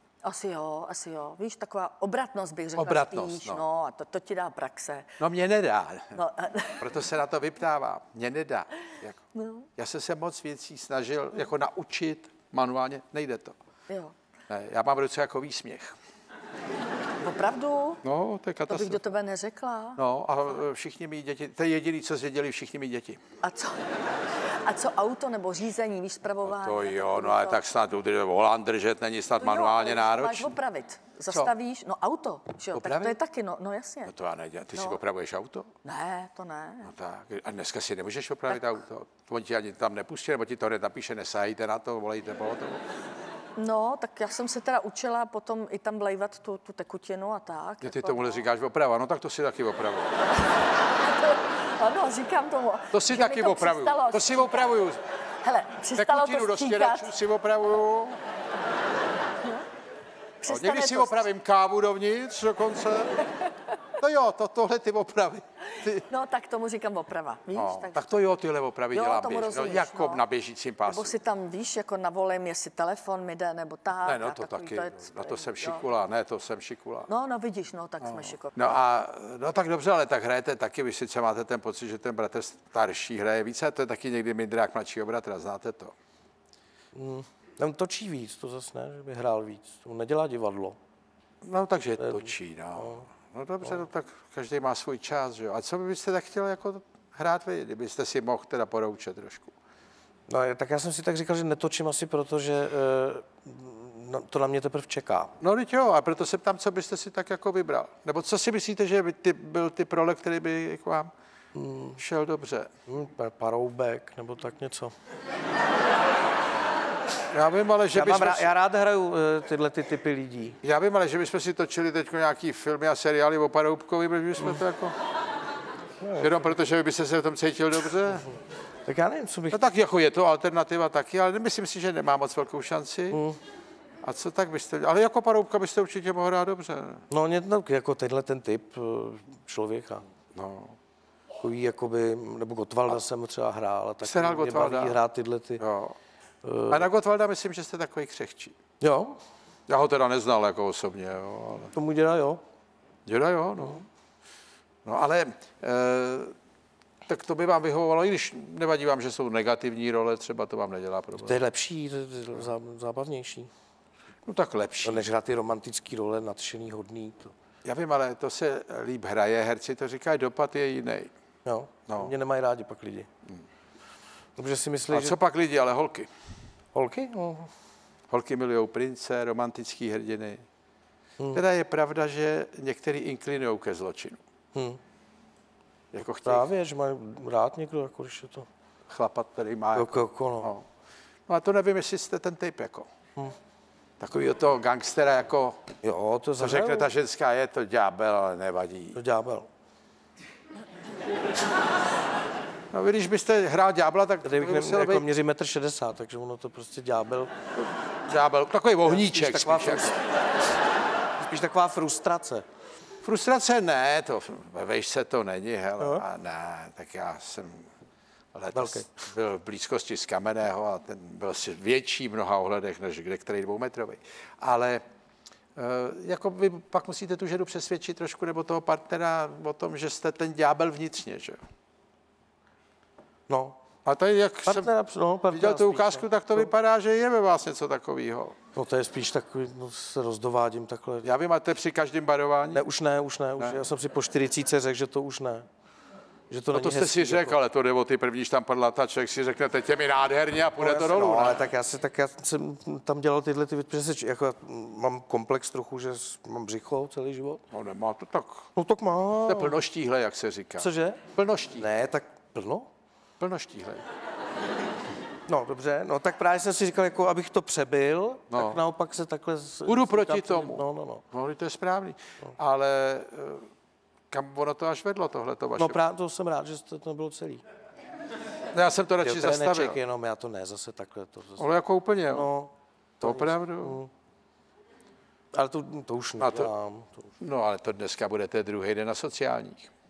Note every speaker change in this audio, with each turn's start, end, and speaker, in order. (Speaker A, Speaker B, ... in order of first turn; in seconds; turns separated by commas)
Speaker A: 0.2-5.1, Speaker B: 2.8-3.6, Speaker B: 5.2-6.2, Speaker A: 6.1-6.9, Speaker B: 6.8-9.2, Speaker A: 9.3-9.7, Speaker B: 9.8-13.6, Speaker A: 13.9-14.1, Speaker B: 14.5-16.0, Speaker A: 17.2-18.0, Speaker B: 18.0-19.0, Speaker A: 18.7-20.0, Speaker B: 20.0-23.2, Speaker A: 23.4-23.8, Speaker A: 24.6-27.6, Speaker B: 26.4-30.5, Speaker A: 29.4-34.1, Speaker B: 32.7-33.2, Speaker B: 34.0-35.7, Speaker A: 34.7-35.0, Speaker A: 35.8-36.9, Speaker B: 36.9-42.8, Speaker A: 43.5-48.4, Speaker B: 47.8-50.2, Speaker A: 51.0-54.6, Speaker B: 52.9-55.0, Speaker A: 55.4-57.1, Speaker B: 56.0-58.2, Speaker A: 60.4-61.3, Speaker B: 60.5-63.2, Speaker B: 64.0-66.0, Speaker A: 66.0-68.0, Speaker B: 67.5-71.1, Speaker A: 68.9-70.2, Speaker A: 70.8-75.8, Speaker B: 74.0-77.1, Speaker A: 77.1-78.8, Speaker B: 78.0-85.9, Speaker C: 86.9-90.8, Speaker B: 91.4-99.5, Speaker C: 92.0-93.0, Speaker C: 100.3-105.3, Speaker B: 105.4-111.1, Speaker C: 111.5-112.0, Speaker B: 112.0-112.7, Speaker C: 112.9-114.9, Speaker B: 117.3-118.5, Speaker C: 117.9-120.6, Speaker B: 120.6-124.9, Speaker C: 126.0-126.3, Speaker B: 126.2-128.3, Speaker C: 128.8-129.6, Speaker B: 129.5-133.2, Speaker C: 133.1-133.4, Speaker B: 134.0-137.0, Speaker C: 137.1-140.1, Speaker B: 140.3-140.8, Speaker C: 141.4-145.6, Speaker B: 144.0-145.0, Speaker B: 145.6-145.9, Speaker C: 146.4-146.9, Speaker B: 146.7-148.6, Speaker C: 148.8-149.2, Speaker B: 149.7-151.7, Speaker C: 151.7-152.4, Speaker B: 153.1-153.8, Speaker B: 154.8-156.3, Speaker B: 157.1-161.4, Speaker C: 161.2-163.5, Speaker B: 164.2-165.1, Speaker C: 164.8-167.3, Speaker B: 167.6-171.1, Speaker C: 171.4-173.1, Speaker B: 171.9-172.1, Speaker C: 174.4-175.2, Speaker B: 174.9-176.1, Speaker C: 176.7-177.5, Speaker B: 178.1-180.4, Speaker B: 181.3-184.2, Speaker C: 184.5-184.8, Speaker B: 185.9-186.5, Speaker C: 186.2-188.5, Speaker B: 188.9-190.7, Speaker C: 189.7-190.5, Speaker B: 191.3-192.9, Speaker B: 194.0-195.6, Speaker C: 195.8-196.9, Speaker B: 196.4-199.0, Speaker C: 198.9-199.5, Speaker B: 202.7-205.0, Speaker C: 204.2-207.3, Speaker B: 208.1-210.0, Speaker C: 208.8-210.1, Speaker C: 211.2-212.4, Speaker B: 213.0-217.7, Speaker B: 218.3-224.8, Speaker C: 218.5-218.9, Speaker B: 225.6-231.4, Speaker C: 233.3-233.6, Speaker B: 233.8-234.7, Speaker C: 234.4-236.5, Speaker B: 235.3-238.3, Speaker C: 238.5-241.1, Speaker B: 241.0-242.6, Speaker C: 242.5-245.5, Speaker C: 246.3-247.4, Speaker B: 246.5-251.4, Speaker C: 250.6-257.4, Speaker B: 257.5-258.5, Speaker C: 258.6-259.6, Speaker B: 259.2-261.6, Speaker C: 260.6-261.0, Speaker C: 261.6-262.7, Speaker B: 263.2-263.8, Speaker C: 265.3-271.0, Speaker B: 268.3-268.6, Speaker B: 269.6-273.5, Speaker B: 274.1-275.8, Speaker C: 275.6-277.4, Speaker B: 278.5-279.8, Speaker C: 279.0-281.5, Speaker B: 281.4-282.3, Speaker C: 282.1-283.9, Speaker B: 283.0-283.8, Speaker C: 285.3-287.1, Speaker B: 286.2-286.5, Speaker B: 287.2-289.7